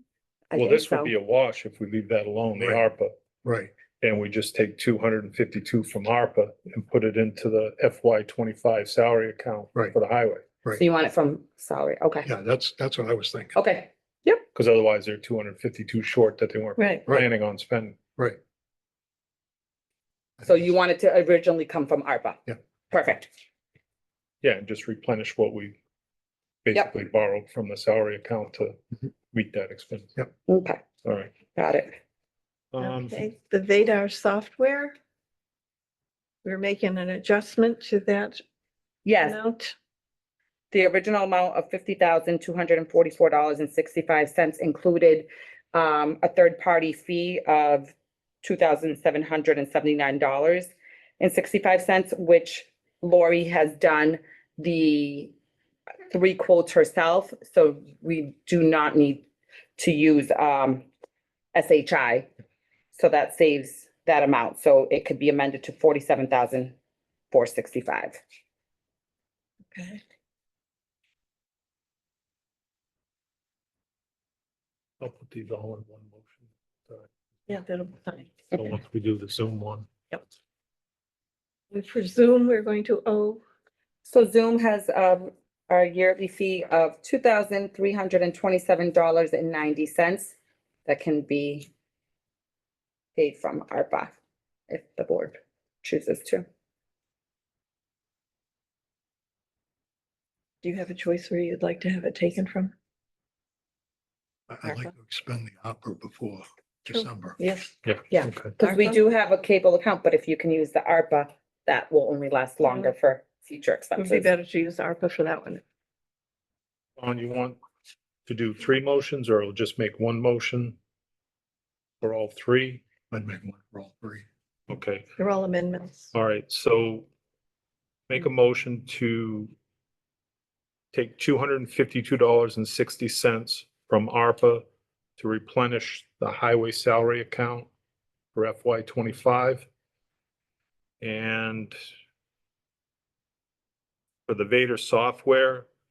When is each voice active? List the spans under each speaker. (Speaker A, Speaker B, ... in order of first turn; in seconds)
Speaker A: 0.5-1.1, 10.8-12.3, 13.5-14.4, 20.4-23.3, 30.5-30.8, 31.5-31.9, 39.0-39.4, 40.7-55.3, 56.1-59.2, 59.8-60.9, 61.5-62.3, 62.9-66.7, 67.3-68.2, 84.0-90.3, 90.8-91.7, 93.2-94.1, 94.7-96.5, 108.1-114.3
Speaker B: 0.5-3.1, 4.0-10.4, 14.5-18.0, 24.4-25.8, 26.6-28.8, 29.3-30.1, 31.0-31.3, 32.7-33.2, 75.0-77.1, 78.5-79.9, 107.8-108.5, 117.0-117.6, 118.3-120.8, 122.0-122.8, 124.7-125.0, 126.1-127.1, 128.1-129.5, 130.9-134.6, 135.2-137.7, 138.3-139.7, 141.0-141.7, 144.3-145.7
Speaker C: 3.4-3.7, 12.2-13.6, 104.5-107.4, 123.1-124.2
Speaker D: 16.8-17.0, 32.8-34.9, 36.4-38.4, 39.2-39.7, 69.7-70.0, 77.5-78.5, 81.7-83.4, 100.6-102.7, 106.9-107.8, 108.6-109.0, 112.6-112.9, 114.0-115.6, 125.2-126.1